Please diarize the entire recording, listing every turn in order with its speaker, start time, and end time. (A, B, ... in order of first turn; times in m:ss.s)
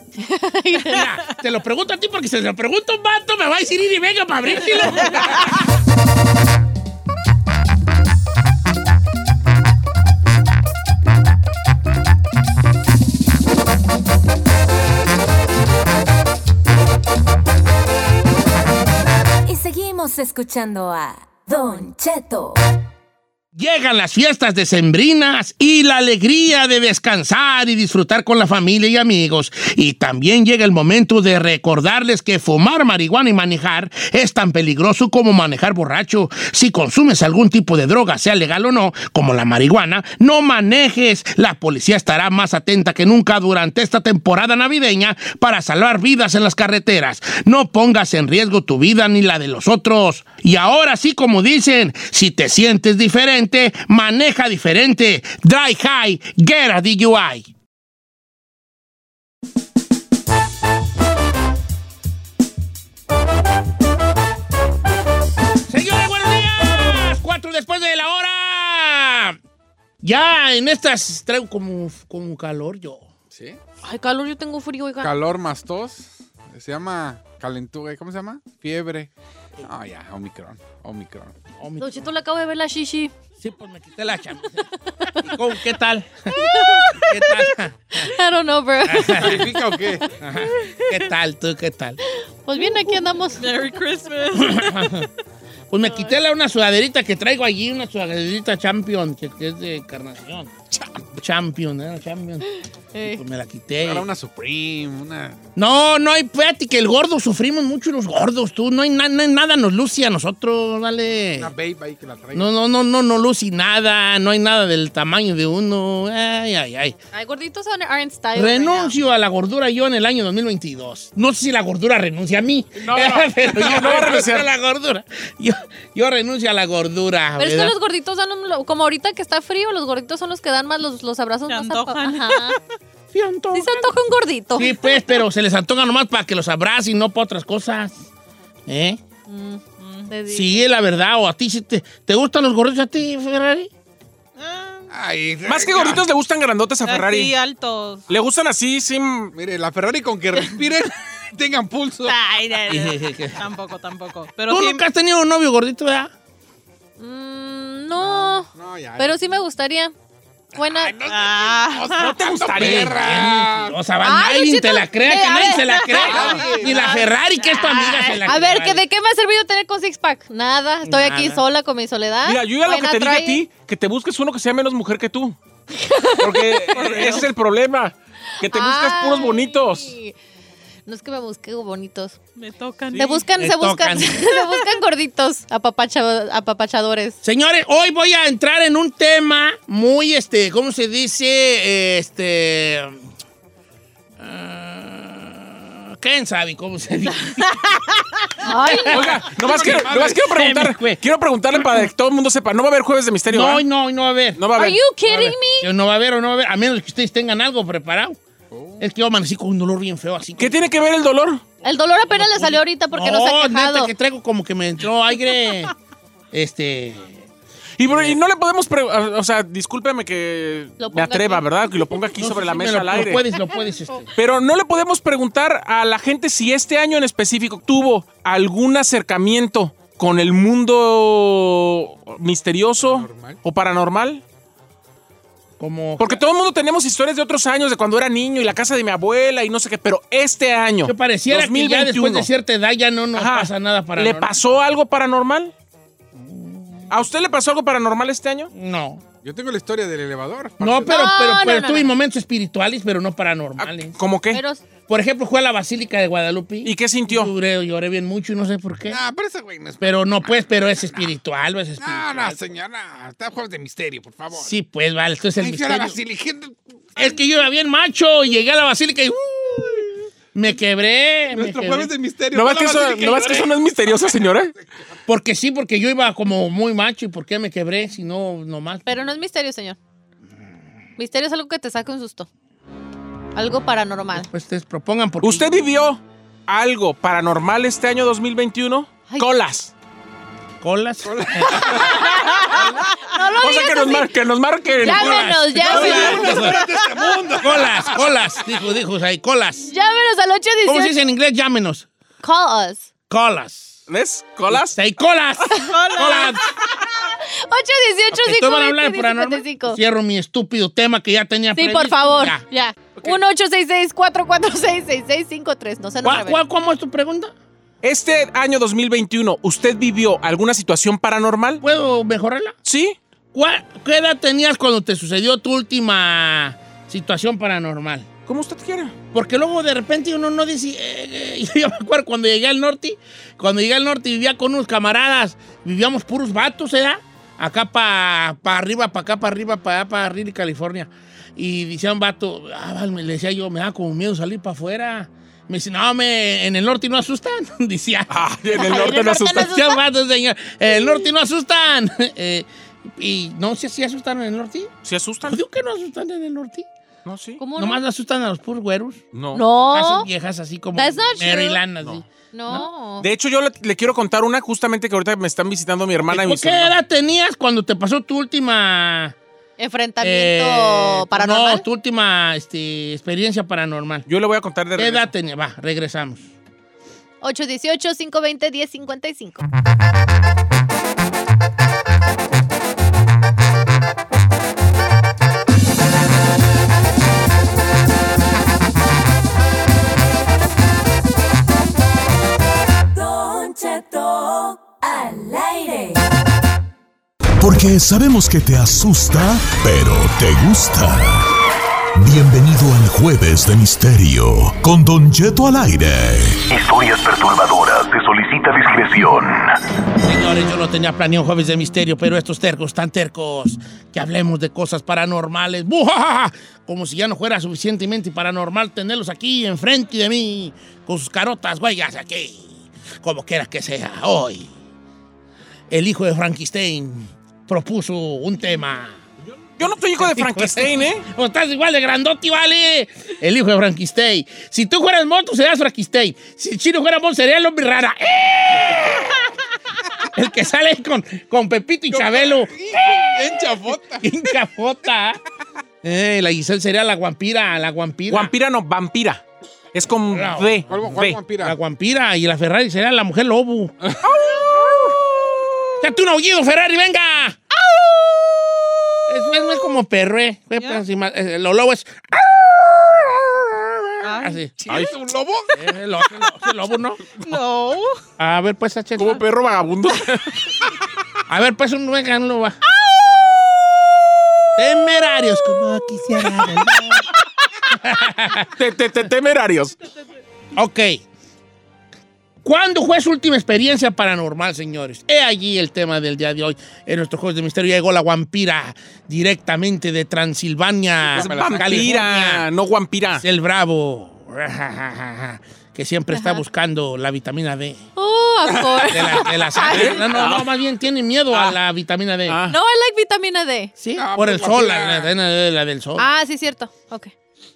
0:00.2-0:01.1 A
0:00.8-0:05.5 B
0:19.4-0:22.6 C
0:23.6-0:57.5 B
1:05.7-1:09.4 B
1:10.0-1:13.1 B
1:13.3-1:13.6 D
1:13.8-1:15.1 A
1:15.0-1:19.1 D
1:19.6-1:21.4 D
1:21.6-1:22.0 B
1:21.8-1:23.1 A
1:23.4-1:28.1 B
1:24.9-1:25.4 A
1:26.3-1:27.4 A
1:27.9-1:29.7 A
1:28.8-1:29.6 B
1:29.1-1:30.1 D
1:30.2-1:32.0 B
1:32.4-1:33.6 A
1:33.4-1:35.1 E
1:34.4-1:35.1 B
1:35.7-1:40.5 B
1:35.8-1:36.1 A
1:41.1-1:42.5 B
1:42.5-1:43.2 A
1:43.0-1:44.1 B
1:43.8-1:45.4 D
1:45.6-1:51.5 B
1:51.3-1:52.5 D
1:52.3-1:57.0 B
1:57.1-1:59.0 A
1:58.4-2:07.8 B
2:02.8-2:04.5 F
2:07.4-2:12.6 A
2:11.5-2:12.6 E
2:13.1-2:13.9 B
2:13.5-2:15.2 A
2:14.6-2:18.1 B
2:18.7-2:19.0 B
2:19.3-2:20.6 A
2:19.8-2:20.1 E
2:20.3-2:23.7 B
2:24.4-2:24.9 E
2:24.9-2:26.0 D
2:25.5-2:27.3 F
2:26.8-2:28.0 E
2:28.1-2:29.3 F
2:29.3-2:32.2 D
2:32.1-2:34.8 E
2:32.7-2:33.5 B
2:34.5-2:36.1 B
2:37.0-2:39.9 A
2:38.5-2:39.2 D
2:40.6-2:43.8 D
2:40.6-2:41.0 A
2:41.1-2:42.2 E
2:42.0-2:43.0 F
2:42.6-2:48.8 B
2:44.0-2:53.4 A
2:45.9-2:47.0 D
2:50.8-2:51.4 B
2:52.2-2:55.4 F
2:55.7-2:56.9 A
2:56.2-2:59.9 F
2:56.7-2:57.3 E
2:58.4-3:00.2 A
3:00.9-3:02.2 A
3:02.4-3:03.3 E
3:02.9-3:07.2 A
3:03.4-3:04.3 B
3:07.2-3:13.0 B
3:14.2-3:21.0 B
3:18.4-3:19.0 A
3:18.9-3:23.7 F
3:19.3-3:20.2 D
3:21.5-3:21.9 B
3:23.3-3:24.4 B
3:24.4-3:24.8 F
3:24.6-3:25.7 A
3:25.0-3:28.2 B
3:28.5-3:28.8 D
3:28.8-3:30.6 B
3:30.4-3:31.4 F
3:31.6-3:33.9 A
3:32.1-3:35.7 B
3:36.3-3:37.2 B
3:37.8-3:43.2 F
3:37.9-3:38.2 B
3:40.8-3:41.5 A
3:42.2-3:44.1 B
3:44.2-3:54.2 F
3:52.8-3:53.4 D
3:55.6-3:56.2 B
3:56.0-4:02.3 F
4:00.8-4:04.4 B
4:03.2-4:05.5 F
4:06.2-4:06.9 B
4:06.9-4:08.5 F
4:08.5-4:09.0 B
4:09.2-4:11.0 D
4:10.6-4:14.0 B
4:10.9-4:11.9 A
4:13.6-4:14.4 F
4:14.3-4:14.6 A
4:14.9-4:19.0 B
4:16.6-4:17.3 F
4:18.9-4:21.1 D
4:19.8-4:22.4 B
4:21.8-4:24.5 D
4:24.3-4:26.0 B
4:25.4-4:27.2 D
4:27.0-4:31.9 B
4:31.3-4:34.2 D
4:32.3-4:34.5 F
4:35.1-4:38.9 B
4:38.9-4:39.8 A
4:41.0-4:42.3 A
4:43.4-4:44.3 A
4:44.1-4:45.6 B
4:45.2-4:49.7 F
4:50.6-4:51.9 B
4:51.0-4:52.2 D
4:51.7-4:54.1 A
4:53.4-4:55.4 F
4:54.8-4:56.7 B
4:54.8-4:56.5 A
4:55.6-4:58.3 D
4:57.4-4:59.7 B
4:59.6-5:01.0 A
5:00.6-5:01.9 B
5:02.2-5:02.9 A
5:03.1-5:03.8 B
5:03.9-5:04.8 F
5:04.5-5:06.4 B
5:05.5-5:06.3 A
5:05.7-5:06.4 E
5:07.0-5:09.8 A
5:08.1-5:12.4 B
5:11.6-5:16.4 A
5:16.0-5:17.3 B
5:17.8-5:21.6 F
5:21.6-5:22.6 B
5:22.6-5:23.0 F
5:23.3-5:28.1 B
5:28.3-5:29.0 F
5:29.1-5:54.7 B
5:48.1-5:49.6 F
5:48.5-5:49.8 A
5:54.8-5:55.4 F
5:55.2-5:56.7 B
5:57.0-5:57.4 F
5:57.4-5:57.8 A
5:57.6-5:59.0 B
5:59.1-5:59.4 F
5:59.3-6:00.1 A
5:59.6-6:02.7 B
6:00.8-6:01.6 A
6:02.3-6:03.1 A
6:03.0-6:06.7 F
6:06.1-6:09.2 B
6:09.6-6:11.6 A
6:10.0-6:14.0 B
6:14.1-6:15.1 F
6:14.8-6:16.3 B
6:17.2-6:19.4 A
6:32.9-6:36.0 C
6:37.4-6:41.3 G
6:42.0-6:47.2 G
6:46.5-6:49.2 H
6:47.8-6:49.4 G
6:50.0-7:04.5 B
7:05.7-7:09.0 B
7:09.6-7:11.1 F
7:10.0-7:19.4 B
7:20.1-7:25.2 B
7:21.9-7:24.3 D
7:25.8-7:28.3 B
7:28.1-7:29.2 F
7:29.7-7:31.2 F
7:30.1-7:30.6 B
7:30.7-7:31.6 D
7:31.4-7:33.7 B
7:33.9-7:34.4 D
7:35.8-7:37.4 B
7:39.1-7:44.6 B
7:44.0-7:44.5 E
7:44.6-7:45.5 D
7:44.7-7:44.9 F
7:45.5-7:47.1 B
7:47.2-7:48.0 E
7:48.2-7:49.2 B
7:49.0-7:50.5 F
7:51.3-7:52.6 B
7:54.6-7:57.1 B
7:57.7-7:58.5 B
7:58.5-7:59.8 F
8:00.6-8:01.0 B
8:02.4-8:12.5 B
8:11.1-8:11.9 D
8:11.1-8:13.2 F
8:13.2-8:17.9 B
8:16.1-8:16.4 A
8:18.0-8:20.0 A
8:18.9-8:22.4 B
8:19.7-8:20.5 F
8:21.3-8:21.6 F
8:22.3-8:22.6 F
8:22.5-8:23.7 A
8:23.8-8:26.1 B
8:24.0-8:25.1 D
8:26.0-8:27.1 A